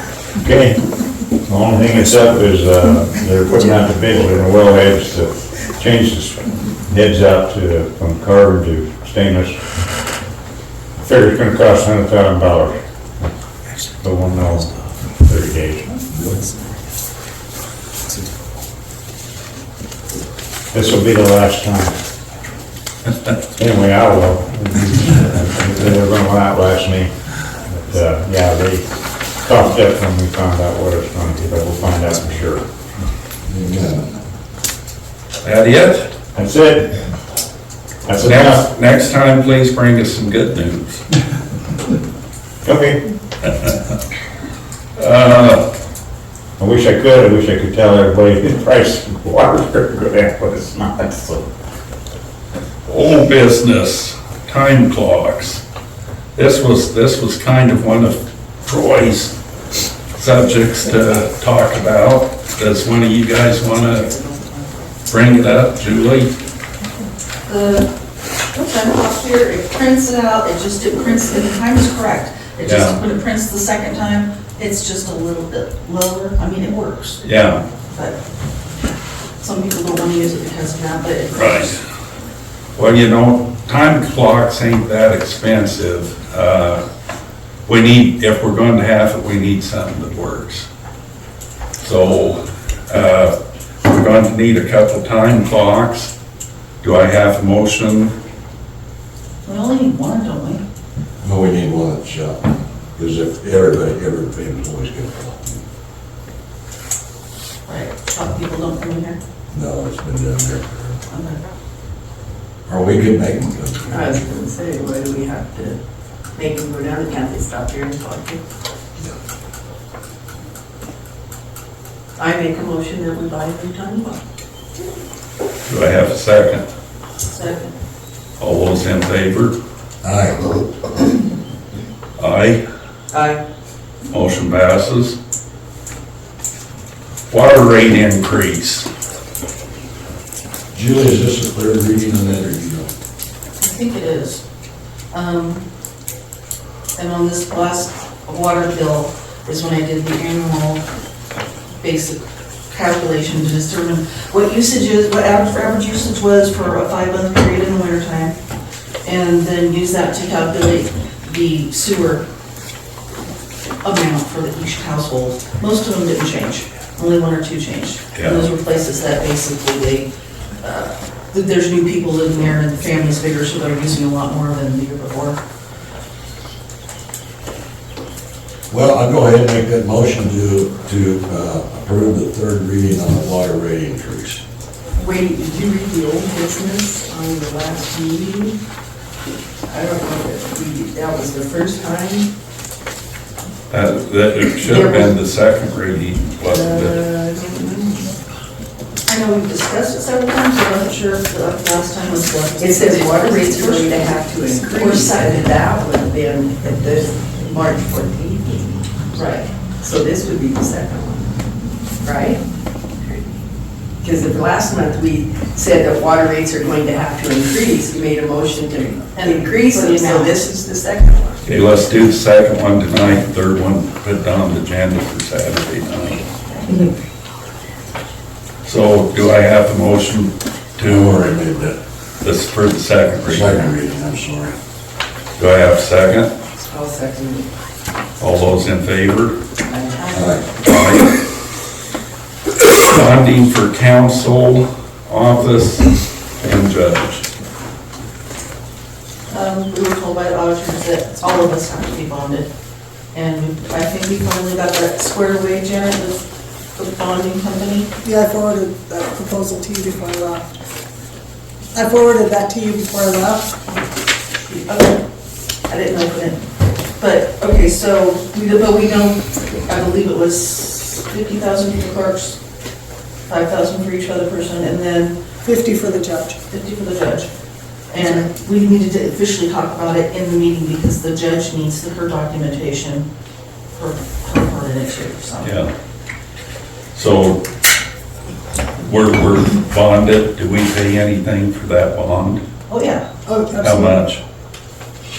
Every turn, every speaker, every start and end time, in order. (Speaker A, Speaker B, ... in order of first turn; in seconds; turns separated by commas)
Speaker A: 0.4-0.8, Speaker A: 1.4-9.6, Speaker A: 11.0-12.8, Speaker A: 14.0-16.0, Speaker B: 16.1-16.4, Speaker A: 20.7-21.9, Speaker A: 23.5-27.1, Speaker A: 27.6-32.7, Speaker B: 33.5-34.1, Speaker C: 35.4-36.1, Speaker A: 36.4-37.0, Speaker A: 38.1-38.7, Speaker C: 38.2-41.0, Speaker A: 42.6-43.0, Speaker C: 45.0-45.6, Speaker A: 46.6-51.5, Speaker C: 52.9-55.6, Speaker C: 56.4-59.4, Speaker C: 60.1-64.1, Speaker D: 63.7-65.0, Speaker C: 65.1-66.3, Speaker E: 67.5-67.9, Speaker E: 68.5-77.2, Speaker C: 72.6-73.0, Speaker C: 77.2-77.6, Speaker E: 77.9-78.2, Speaker E: 79.4-81.8, Speaker C: 81.3-81.7, Speaker C: 82.8-86.8, Speaker C: 87.7-90.7, Speaker C: 91.8-96.1, Speaker C: 96.8-98.1, Speaker E: 99.5-100.6, Speaker B: 101.2-105.6, Speaker E: 107.7-109.2, Speaker B: 109.5-111.0, Speaker E: 111.1-111.4, Speaker B: 112.7-114.2, Speaker D: 113.9-115.8, Speaker D: 116.3-118.4, Speaker D: 122.2-124.2, Speaker C: 125.7-126.6, Speaker E: 127.3-127.7, Speaker C: 128.4-129.6, Speaker B: 130.0-130.9, Speaker C: 132.2-132.6, Speaker D: 133.1-133.4, Speaker C: 134.1-135.2, Speaker C: 137.3-138.9, Speaker B: 140.7-142.9, Speaker E: 143.6-144.4, Speaker E: 145.1-145.6, Speaker E: 147.0-150.9, Speaker E: 151.8-158.3, Speaker E: 159.0-162.3, Speaker E: 163.8-170.1, Speaker C: 168.2-168.5, Speaker E: 170.6-175.4, Speaker B: 178.7-184.4, Speaker D: 184.9-188.6, Speaker D: 189.7-192.3, Speaker C: 193.7-197.0, Speaker D: 194.7-195.1, Speaker D: 196.4-198.1, Speaker E: 199.1-205.5, Speaker D: 202.6-211.3, Speaker D: 212.0-212.4, Speaker D: 213.0-213.4, Speaker D: 214.0-221.4, Speaker E: 219.1-220.4, Speaker C: 221.5-226.3, Speaker C: 228.7-231.2, Speaker B: 230.9-231.8, Speaker C: 232.2-233.7, Speaker B: 233.3-234.6, Speaker C: 235.4-236.3, Speaker D: 236.6-237.5, Speaker C: 238.2-239.4, Speaker D: 239.6-240.1, Speaker E: 240.0-240.4, Speaker B: 240.1-240.4, Speaker C: 240.6-241.1, Speaker C: 242.6-247.2, Speaker E: 249.3-252.5, Speaker E: 253.1-257.9, Speaker F: 258.0-260.5, Speaker F: 261.7-263.5, Speaker E: 264.4-265.0, Speaker E: 265.7-266.4, Speaker E: 267.0-272.4, Speaker E: 273.3-275.2, Speaker F: 275.4-276.4, Speaker E: 276.5-277.3, Speaker E: 277.9-283.1, Speaker E: 283.8-285.5, Speaker C: 285.4-285.7, Speaker C: 286.9-287.4, Speaker C: 288.8-292.4, Speaker E: 292.7-293.1, Speaker F: 293.2-294.0, Speaker C: 293.6-294.2